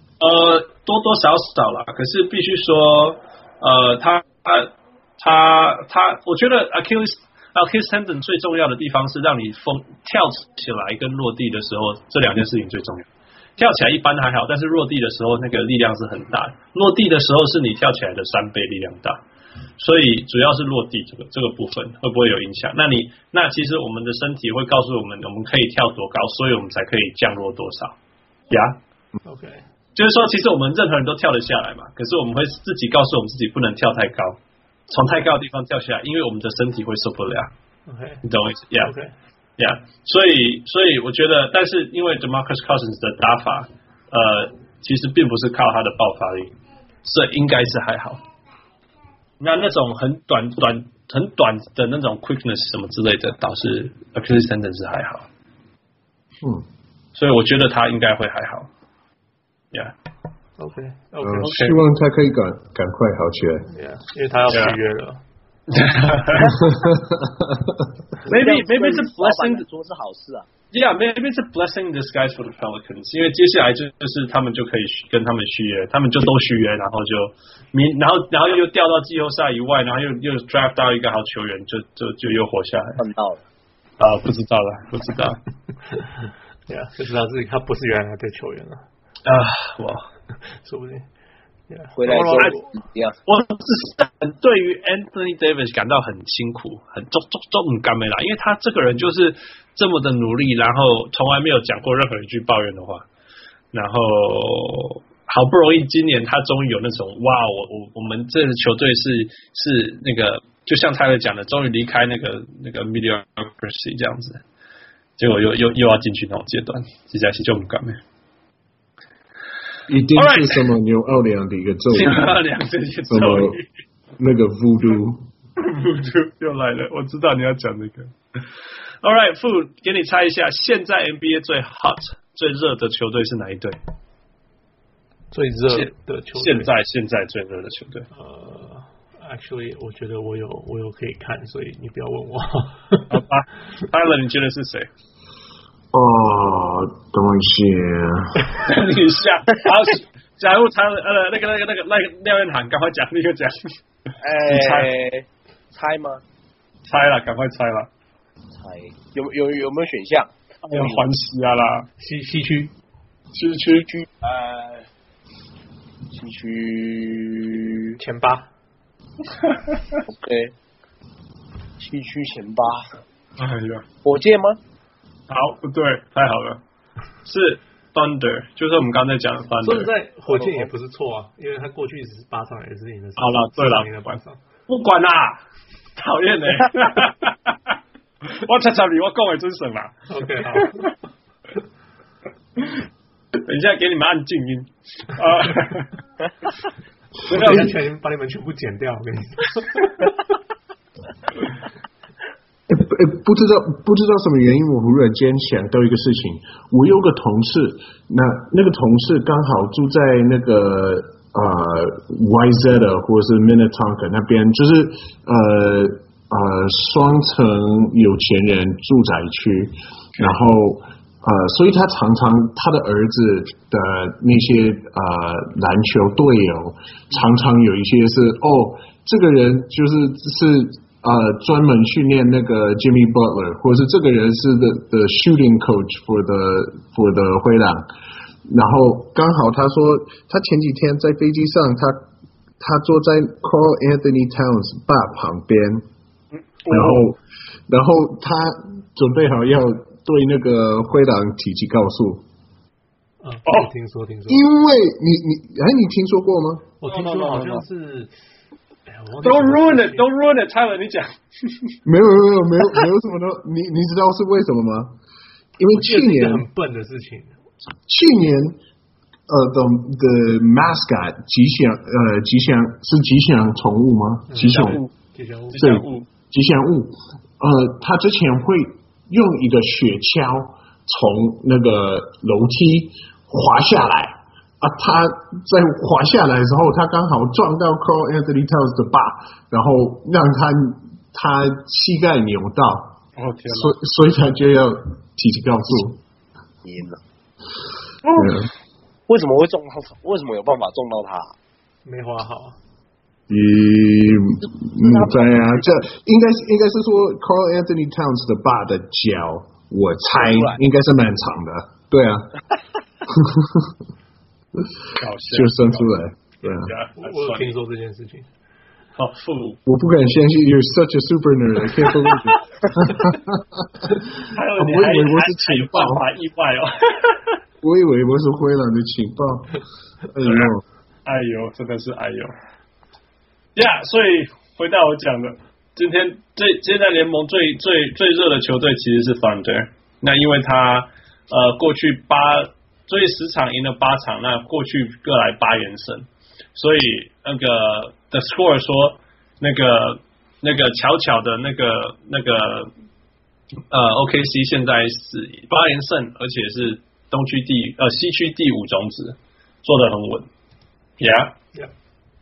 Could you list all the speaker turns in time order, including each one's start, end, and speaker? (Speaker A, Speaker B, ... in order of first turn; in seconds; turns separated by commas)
Speaker A: 0.2-19.2, Speaker A: 19.8-27.9, Speaker A: 28.5-28.8, Speaker B: 29.2-29.6, Speaker A: 29.9-37.5, Speaker B: 37.9-38.2, Speaker A: 38.2-38.9, Speaker B: 38.8-39.1, Speaker A: 39.6-48.2, Speaker A: 49.4-55.3, Speaker A: 57.1-58.7, Speaker B: 60.6-61.6, Speaker C: 61.2-63.7, Speaker A: 61.4-61.8, Speaker B: 63.7-65.2, Speaker A: 64.5-64.8, Speaker A: 65.7-66.6, Speaker D: 66.4-66.6, Speaker C: 66.6-67.9, Speaker A: 68.2-69.6, Speaker D: 68.2-70.5, Speaker A: 70.7-83.0, Speaker D: 83.0-83.4, Speaker A: 84.0-85.4, Speaker B: 86.7-88.8, Speaker A: 89.2-90.1, Speaker B: 90.6-91.0, Speaker B: 91.7-92.8, Speaker D: 92.0-93.1, Speaker A: 93.2-103.0, Speaker A: 103.7-114.4, Speaker A: 115.2-118.0, Speaker C: 119.9-122.4, Speaker A: 120.2-120.7, Speaker A: 121.9-123.7, Speaker C: 123.1-123.6, Speaker C: 124.2-125.3, Speaker A: 125.6-128.4, Speaker A: 129.0-133.8, Speaker B: 135.3-136.7, Speaker A: 135.7-138.1, Speaker B: 138.1-143.1, Speaker A: 143.1-144.9, Speaker C: 145.9-148.6, Speaker A: 148.5-153.7, Speaker D: 154.2-156.2, Speaker A: 154.4-154.9, Speaker A: 156.8-157.9, Speaker D: 158.5-161.0, Speaker A: 160.6-161.9, Speaker B: 162.0-162.7, Speaker A: 163.3-163.9, Speaker D: 163.9-164.9, Speaker D: 166.1-168.0, Speaker B: 168.0-168.5, Speaker A: 169.5-170.0, Speaker D: 170.1-170.5, Speaker D: 171.8-172.9, Speaker A: 173.4-173.8, Speaker D: 174.0-174.6, Speaker A: 175.3-176.6, Speaker A: 177.2-179.9, Speaker B: 179.6-184.4, Speaker A: 183.2-185.4, Speaker A: 185.9-190.7, Speaker B: 190.1-190.9, Speaker A: 193.4-195.9, Speaker A: 197.3-197.7, Speaker B: 197.3-199.9, Speaker C: 202.7-237.8, Speaker C: 238.5-242.1, Speaker C: 242.6-245.8, Speaker A: 246.4-247.0, Speaker C: 246.7-252.2, Speaker B: 253.2-254.4, Speaker C: 254.3-256.7, Speaker B: 256.8-258.1, Speaker A: 256.9-257.6, Speaker B: 258.9-260.1, Speaker A: 259.2-261.8, Speaker C: 261.8-265.0, Speaker C: 265.6-266.5, Speaker B: 265.7-267.3, Speaker C: 267.9-268.6, Speaker C: 269.3-274.8, Speaker B: 274.3-275.6, Speaker A: 274.4-274.9, Speaker A: 275.5-276.1, Speaker C: 275.6-296.0, Speaker A: 293.2-293.8, Speaker D: 296.6-297.0, Speaker A: 298.1-298.3, Speaker C: 298.1-298.5, Speaker D: 299.1-301.3, Speaker B: 301.8-302.6, Speaker C: 303.3-312.3, Speaker D: 304.8-305.4, Speaker D: 310.2-310.6, Speaker C: 313.1-313.8, Speaker C: 314.6-316.7, Speaker A: 314.9-317.5, Speaker B: 317.0-318.3, Speaker A: 318.9-319.6, Speaker C: 319.6-326.0, Speaker A: 324.2-327.4, Speaker C: 327.6-330.6, Speaker A: 330.2-330.5, Speaker A: 331.0-332.3, Speaker A: 333.6-352.7, Speaker A: 353.7-360.3, Speaker A: 361.0-361.4